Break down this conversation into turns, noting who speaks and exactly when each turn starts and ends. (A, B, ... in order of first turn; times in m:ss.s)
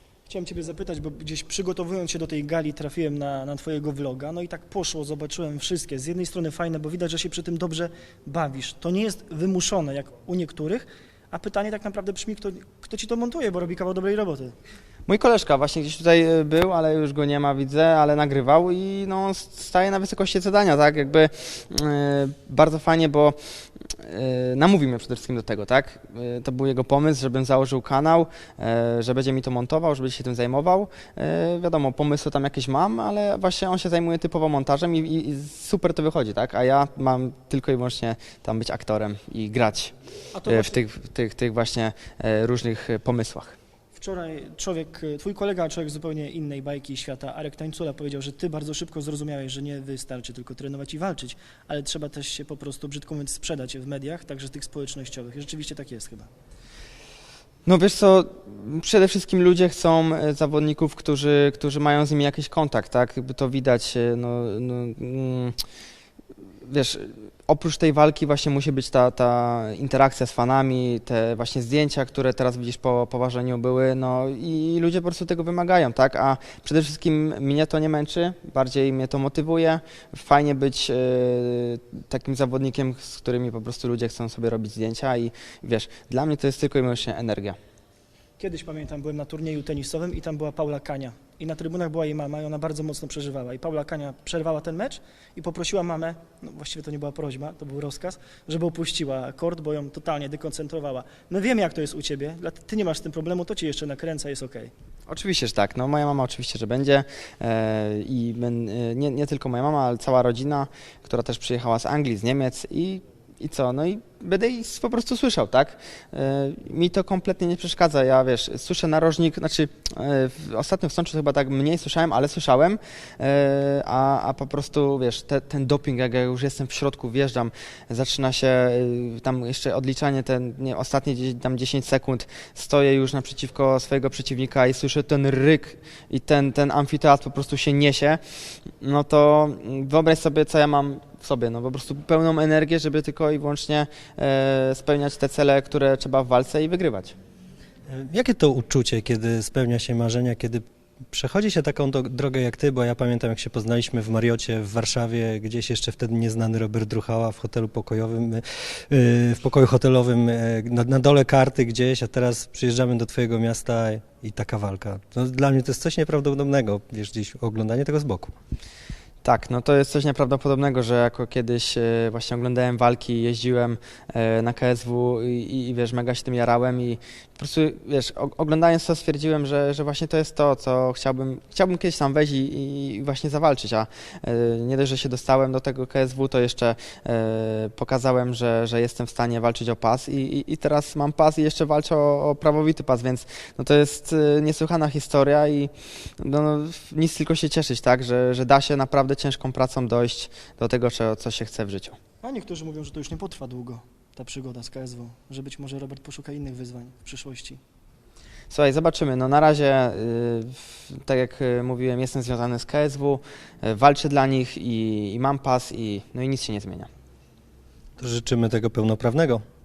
0:00.3-0:14.5 A
0:15.1-0:23.4 B
0:23.9-0:39.9 B
0:40.3-0:40.8 A
0:40.4-0:43.6 B
0:43.9-0:56.3 A
0:57.6-1:05.5 B
1:06.6-1:27.6 B
1:28.4-1:44.7 A
1:45.1-2:18.2 B
2:18.8-2:27.1 B
2:27.9-2:48.3 C
2:49.2-3:22.0 B
3:22.2-3:27.6 A
3:28.5-3:36.9 B
3:38.0-3:39.4 C